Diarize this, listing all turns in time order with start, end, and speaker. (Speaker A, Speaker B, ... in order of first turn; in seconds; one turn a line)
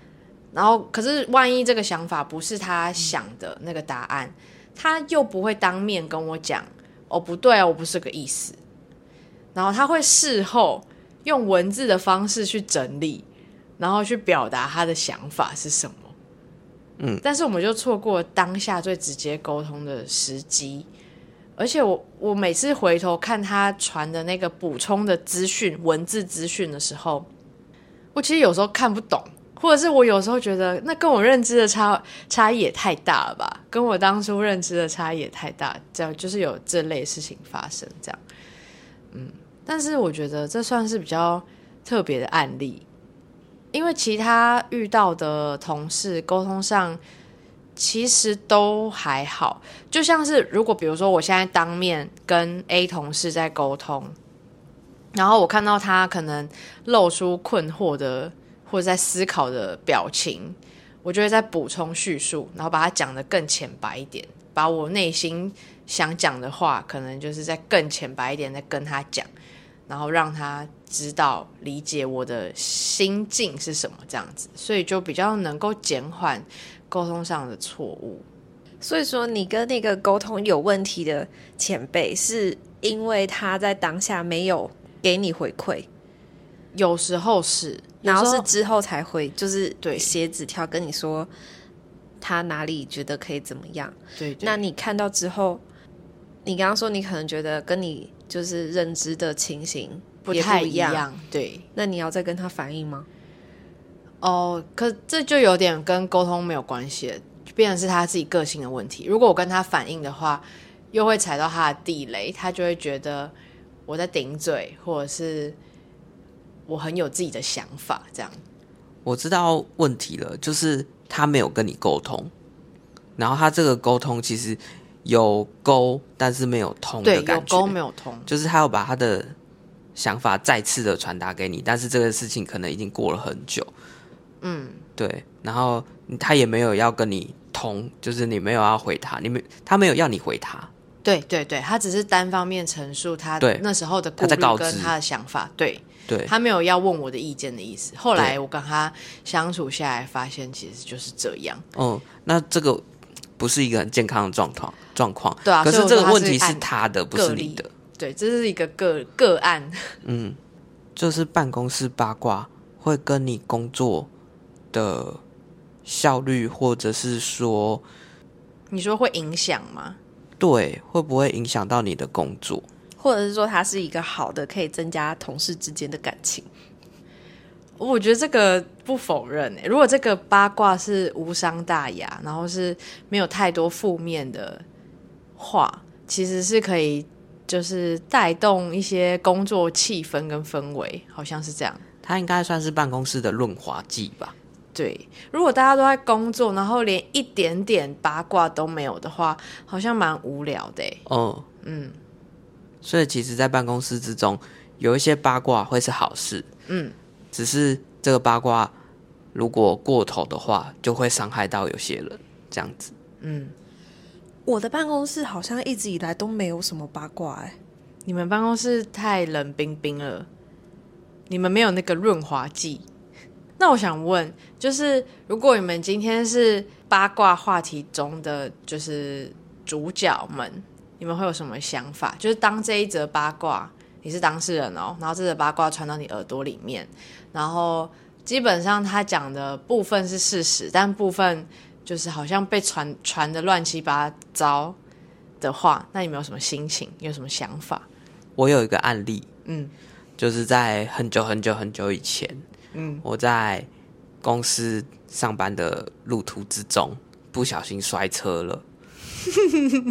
Speaker A: 0.5-8.6
Speaker A: 9.5-13.2
Speaker A: 13.8-16.1
Speaker A: 17.2-20.9
Speaker A: 21.6-27.3
Speaker A: 28.1-38.2
Speaker A: 39.1-42.8
Speaker A: 43.7-47.0
Speaker A: 47.8-54.1
Speaker A: 55.1-69.3
Speaker A: 69.9-78.2
Speaker B: 78.8-85.9
Speaker A: 86.7-88.5
Speaker B: 88.0-91.3
Speaker A: 89.8-90.1
Speaker B: 92.2-95.6
Speaker A: 94.2-94.6
Speaker B: 96.4-101.0
Speaker A: 100.2-101.6
Speaker B: 101.8-103.1
Speaker A: 104.2-113.3
Speaker A: 113.9-115.6
Speaker A: 116.7-118.4
Speaker C: 119.0-122.3
Speaker C: 123.2-127.8
Speaker A: 127.0-128.3
Speaker C: 128.3-129.3
Speaker C: 129.9-133.7
Speaker A: 134.4-134.8
Speaker C: 135.0-140.7
Speaker A: 141.0-151.6
Speaker C: 144.2-144.9
Speaker C: 151.7-152.8
Speaker C: 153.4-157.7
Speaker A: 155.4-159.9
Speaker C: 160.0-160.4
Speaker C: 160.9-164.1
Speaker C: 164.7-165.2
Speaker C: 165.8-167.8
Speaker A: 168.7-170.0
Speaker C: 170.4-172.6
Speaker B: 173.0-176.5
Speaker A: 177.8-184.6
Speaker A: 185.4-191.8
Speaker C: 192.0-194.3
Speaker A: 194.7-201.0
Speaker C: 201.1-201.4
Speaker A: 201.6-202.0
Speaker C: 202.8-206.5
Speaker A: 206.7-206.9
Speaker C: 207.3-208.7
Speaker C: 209.3-212.9
Speaker A: 213.2-213.5
Speaker B: 214.4-217.6
Speaker A: 218.1-220.3
Speaker A: 221.3-222.8
Speaker A: 223.6-244.8
Speaker A: 245.4-247.8
Speaker C: 248.4-249.3
Speaker A: 249.4-249.7
Speaker C: 250.2-252.4
Speaker A: 252.7-253.0
Speaker C: 253.0-253.7
Speaker C: 254.2-258.6